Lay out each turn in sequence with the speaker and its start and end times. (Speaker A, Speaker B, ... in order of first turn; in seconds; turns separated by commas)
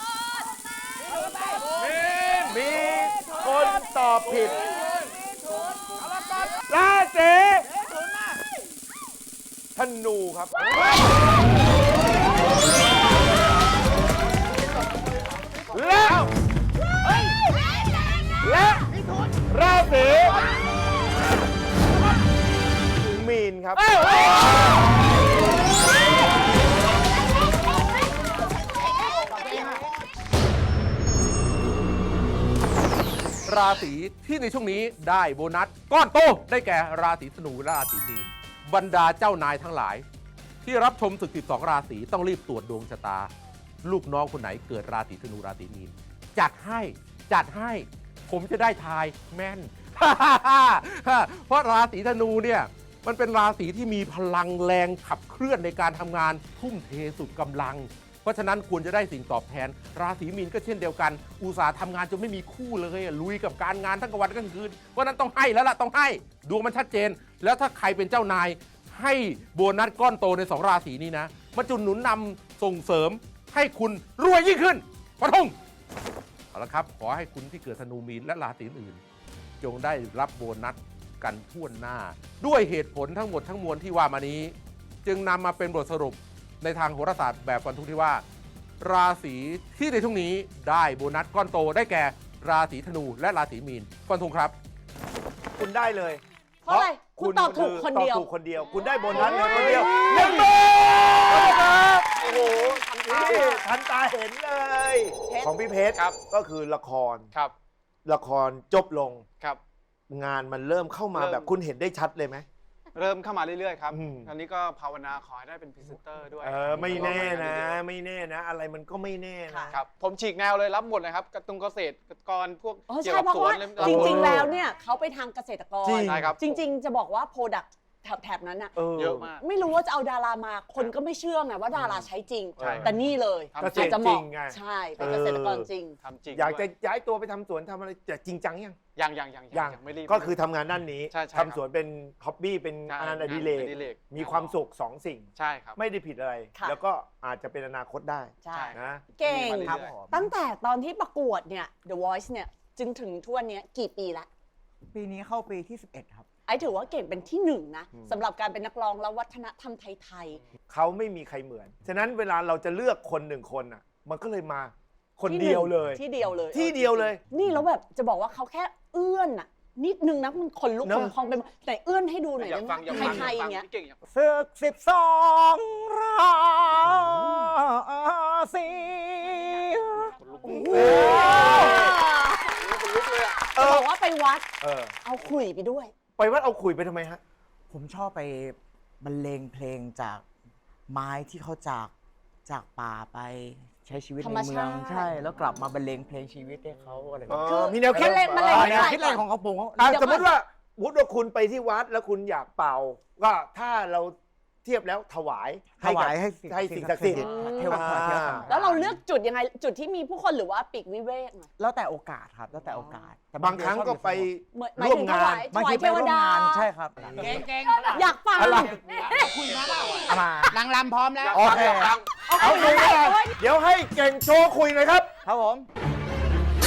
Speaker A: 1.8-4.6, Speaker A: 6.7-7.7, Speaker A: 9.8-10.6, Speaker A: 15.7-16.3, Speaker B: 17.1-17.3, Speaker B: 18.2-19.3, Speaker A: 18.4-18.9, Speaker A: 19.5-20.4, Speaker A: 23.1-23.9, Speaker B: 28.8-29.9, Speaker C: 33.5-40.0, Speaker C: 40.6-43.3, Speaker C: 43.8-75.5, Speaker C: 76.5-79.0, Speaker C: 79.6-84.5, Speaker C: 85.0-88.2, Speaker C: 88.8-94.5, Speaker A: 95.6-100.5, Speaker D: 96.7-98.3, Speaker D: 99.1-103.6, Speaker A: 101.2-107.3, Speaker A: 108.1-109.2, Speaker A: 110.1-112.5, Speaker E: 111.2-111.5, Speaker E: 113.0-117.8, Speaker A: 113.9-114.3, Speaker A: 116.4-119.7, Speaker D: 119.5-119.8, Speaker E: 119.7-124.5, Speaker D: 122.9-128.8, Speaker A: 123.8-124.5, Speaker A: 125.8-126.4, Speaker E: 126.0-126.6, Speaker A: 128.8-129.3, Speaker E: 128.9-129.4, Speaker D: 129.3-136.0, Speaker A: 131.7-132.1, Speaker A: 132.6-133.0, Speaker E: 132.6-132.9, Speaker E: 133.5-134.0, Speaker A: 133.6-135.7, Speaker E: 136.0-136.7, Speaker A: 136.3-138.8, Speaker E: 139.0-140.4, Speaker A: 139.5-149.1, Speaker E: 141.1-141.6, Speaker E: 142.9-144.6, Speaker E: 145.4-145.8, Speaker D: 148.4-154.3, Speaker E: 148.5-150.0, Speaker F: 149.2-150.3, Speaker F: 154.9-156.2, Speaker D: 156.5-160.4, Speaker A: 160.7-166.0, Speaker D: 165.3-173.7, Speaker A: 166.5-167.2, Speaker A: 170.8-171.2, Speaker E: 172.4-174.0, Speaker A: 172.9-173.3, Speaker F: 174.1-180.1, Speaker E: 180.0-181.9, Speaker D: 180.4-182.6, Speaker A: 180.7-181.8, Speaker E: 182.5-183.5, Speaker A: 183.6-183.9, Speaker D: 183.6-184.4, Speaker A: 184.6-184.9, Speaker D: 185.0-185.9, Speaker A: 186.2-187.2, Speaker F: 187.7-190.2, Speaker F: 190.9-191.9, Speaker F: 192.5-199.9, Speaker D: 194.2-195.2, Speaker A: 197.3-199.0, Speaker D: 197.3-199.2, Speaker A: 199.8-208.5, Speaker D: 199.8-200.4, Speaker F: 205.8-209.0, Speaker D: 207.2-207.9, Speaker D: 208.5-211.5, Speaker F: 211.6-214.3, Speaker A: 213.4-215.5, Speaker D: 214.5-216.7, Speaker F: 215.5-217.4, Speaker B: 217.2-218.0, Speaker D: 217.8-219.3, Speaker A: 218.4-218.8, Speaker B: 219.2-219.9, Speaker E: 219.4-220.2, Speaker F: 220.1-220.5, Speaker B: 220.5-221.3, Speaker E: 221.2-222.0, Speaker F: 221.3-221.9, Speaker D: 222.3-223.3, Speaker A: 222.4-225.1, Speaker F: 225.2-225.7